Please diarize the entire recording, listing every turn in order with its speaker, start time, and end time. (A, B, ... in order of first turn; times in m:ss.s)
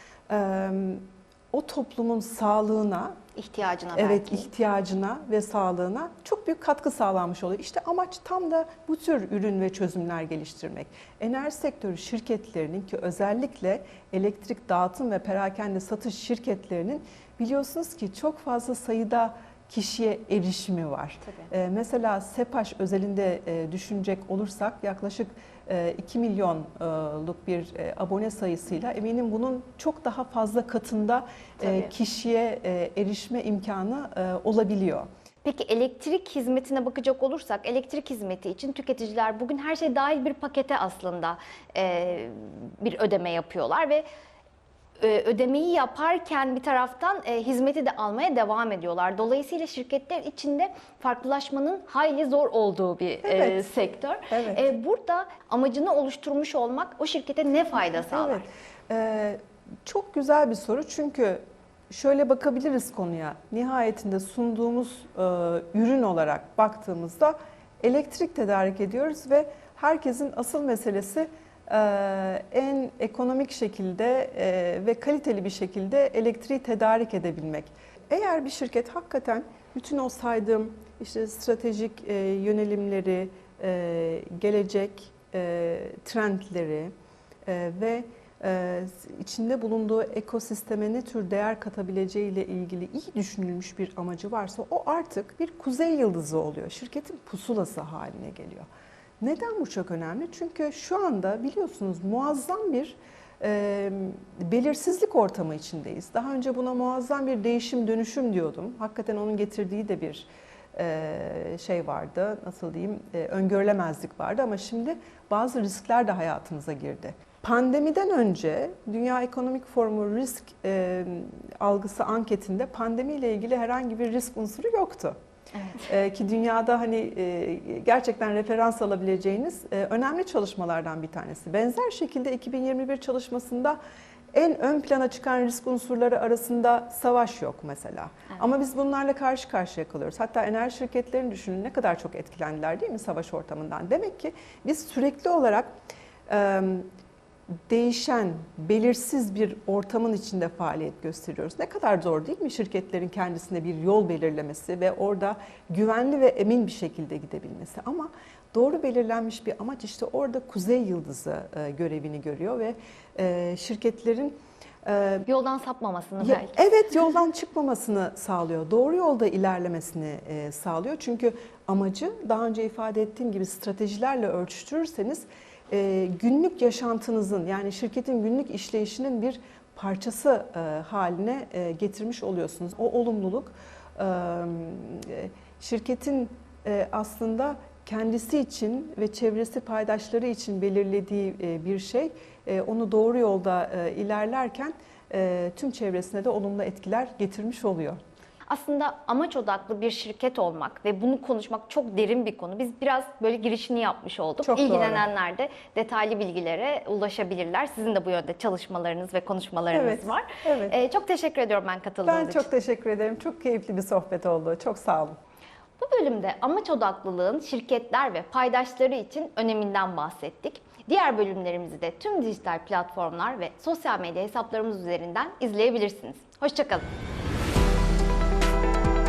0:00.3-0:03.2 A
0:03.4-0:04.5 B
0:03.9-0:35.1 A
0:31.6-0:31.9 B
0:35.4-0:44.0 B
0:45.0-0:58.4 B
0:53.2-0:53.6 A
0:54.3-0:54.7 A
0:58.0-1:26.9 A
1:27.5-1:38.7 A
1:39.2-2:05.2 A
2:05.5-2:05.9 B
2:05.9-2:13.8 A
2:14.3-2:25.7 A
2:26.3-2:26.9 A
2:27.7-2:45.3 A
2:45.3-2:46.5 B
2:46.2-3:18.0 A
3:18.5-3:32.5 B
3:24.4-3:25.1 A
3:29.7-3:30.8 A
3:32.0-3:35.2 A
3:35.8-3:46.9 B